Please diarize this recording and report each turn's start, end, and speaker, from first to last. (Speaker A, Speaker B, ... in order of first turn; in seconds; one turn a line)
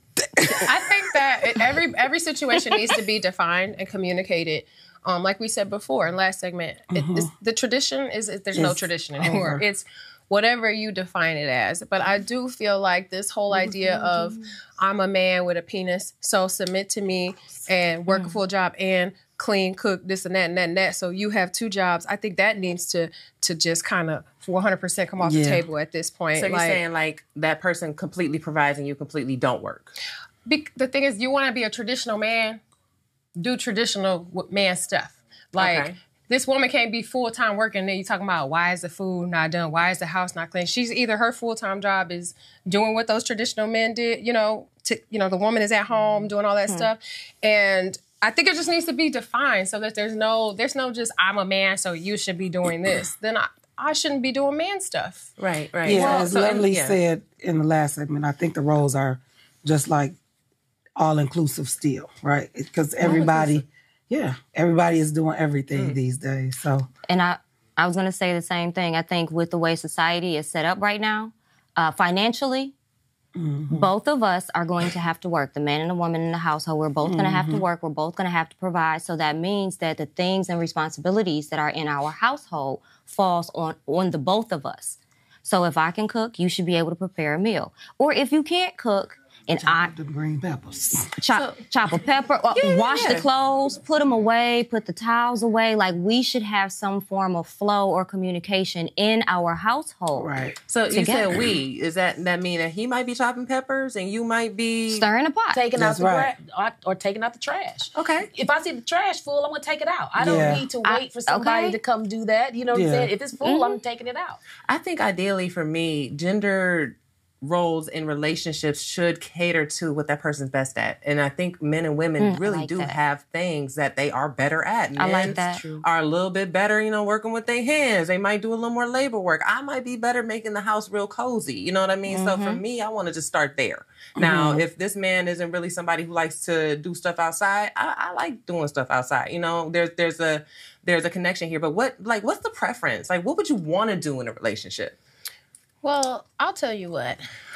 Speaker A: 0.4-0.7
Speaker B: 0.4-26.8
Speaker A: 6.9-7.3
Speaker A: 8.5-9.6
Speaker C: 13.5-14.4
Speaker C: 18.1-18.4
Speaker A: 25.2-25.6
Speaker D: 26.4-29.9
Speaker B: 30.5-32.6
Speaker B: 33.4-55.3
Speaker D: 35.5-36.0
Speaker D: 55.4-57.0
Speaker A: 55.9-60.2
Speaker B: 55.9-56.3
Speaker A: 61.0-66.9
Speaker C: 67.1-72.7
Speaker A: 73.4-73.9
Speaker C: 73.7-89.9
Speaker A: 77.0-77.6
Speaker A: 89.6-91.1
Speaker C: 91.2-100.3
Speaker D: 91.3-91.6
Speaker D: 92.6-93.2
Speaker A: 100.1-100.6
Speaker D: 100.7-105.1
Speaker C: 100.9-101.3
Speaker C: 104.9-105.6
Speaker E: 105.5-114.4
Speaker A: 105.8-106.3
Speaker D: 108.0-108.3
Speaker A: 110.2-110.7
Speaker C: 110.8-111.8
Speaker A: 112.7-113.1
Speaker C: 113.4-113.8
Speaker D: 114.7-145.0
Speaker C: 122.2-123.0
Speaker C: 125.0-125.6
Speaker C: 132.1-132.6
Speaker A: 134.2-134.6
Speaker B: 145.8-147.2